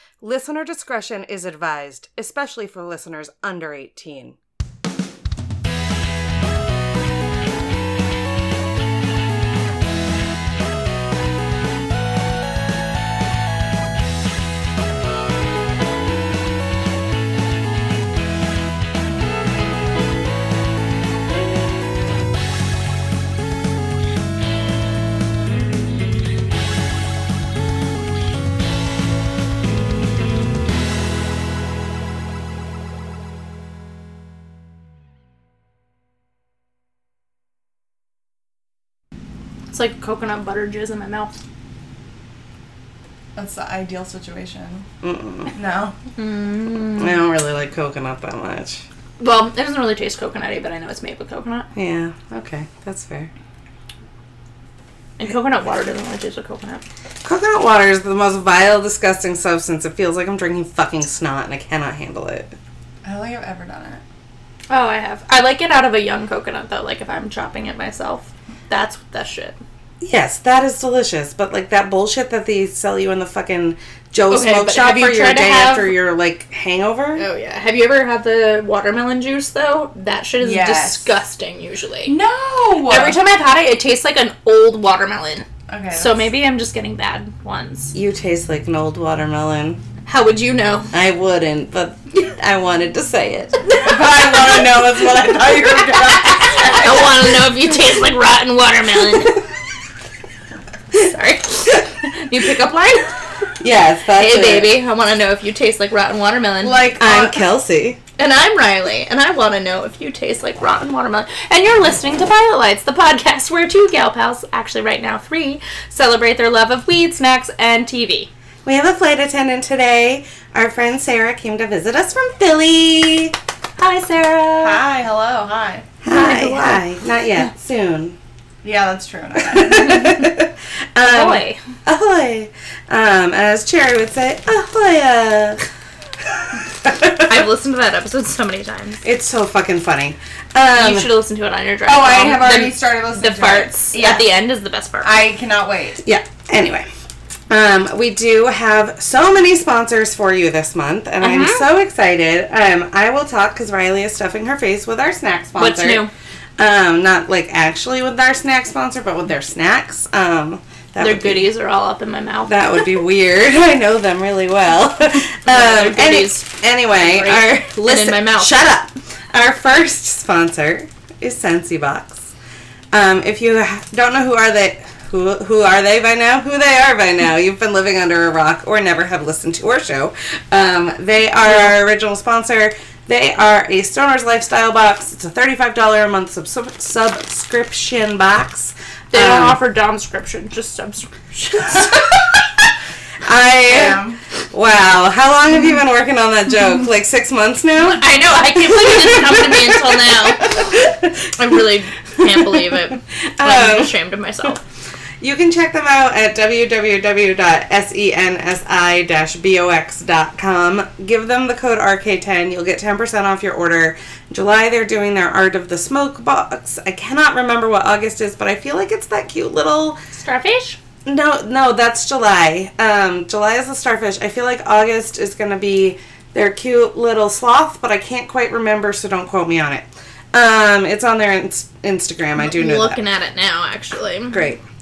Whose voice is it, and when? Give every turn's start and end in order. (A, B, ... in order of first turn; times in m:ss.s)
0:00.2-0:04.4 A
0:39.7-0:41.3 B
0:43.4-0:44.8 C
0:45.0-0:45.5 A
0:45.5-0:45.9 C
0:46.2-0:47.2 B
0:47.0-0:48.8 A
0:49.2-0:51.7 B
0:51.7-0:53.3 A
0:55.2-0:56.8 B
0:57.2-1:02.6 A
1:03.0-1:04.0 C
1:04.7-1:09.6 B
1:10.0-1:17.2 A
1:14.3-1:16.0 B
1:17.2-1:22.2 B
1:20.4-1:21.1 C
1:22.0-1:23.2 C
1:22.8-1:27.9 B
1:25.7-1:26.3 C
1:27.9-1:29.8 A
1:30.0-1:30.9 B
1:30.9-1:33.6 A
1:33.8-1:37.4 C
1:34.5-1:35.7 A
1:36.6-1:39.4 B
1:40.9-1:43.1 B
1:43.6-1:44.8 A
1:44.1-1:47.0 B
1:46.6-1:47.4 C
1:47.0-1:48.0 A
1:48.2-1:58.3 B
1:58.6-2:03.3 A
2:03.8-2:04.8 B
2:04.6-2:05.9 C
2:06.0-2:08.2 A
2:06.0-2:06.8 B
2:08.6-2:09.9 C
2:09.4-2:15.6 A
2:09.8-2:10.3 B
2:11.0-2:11.6 B
2:16.8-2:17.4 A
2:17.3-2:19.0 B
2:19.0-2:21.1 A
2:20.7-2:25.2 B
2:21.8-2:24.4 C
2:25.0-2:26.0 C
2:26.0-2:26.9 A
2:27.5-2:36.1 A
2:31.2-2:31.7 B
2:35.6-2:36.1 B
2:36.6-2:41.5 A
2:41.0-2:42.8 B
2:42.5-2:52.3 A
2:45.4-2:48.6 B
2:52.9-3:09.6 A
3:01.4-3:01.8 B
3:09.1-3:11.9 B
3:11.7-3:12.4 A
3:13.2-3:21.6 A
3:13.6-3:14.2 C
3:17.8-3:20.8 B
3:21.3-3:24.6 B
3:22.2-3:24.0 A
3:25.2-3:40.0 A
3:40.1-3:40.8 B
3:41.0-3:53.0 A
3:52.4-3:54.5 B
3:54.3-3:54.6 A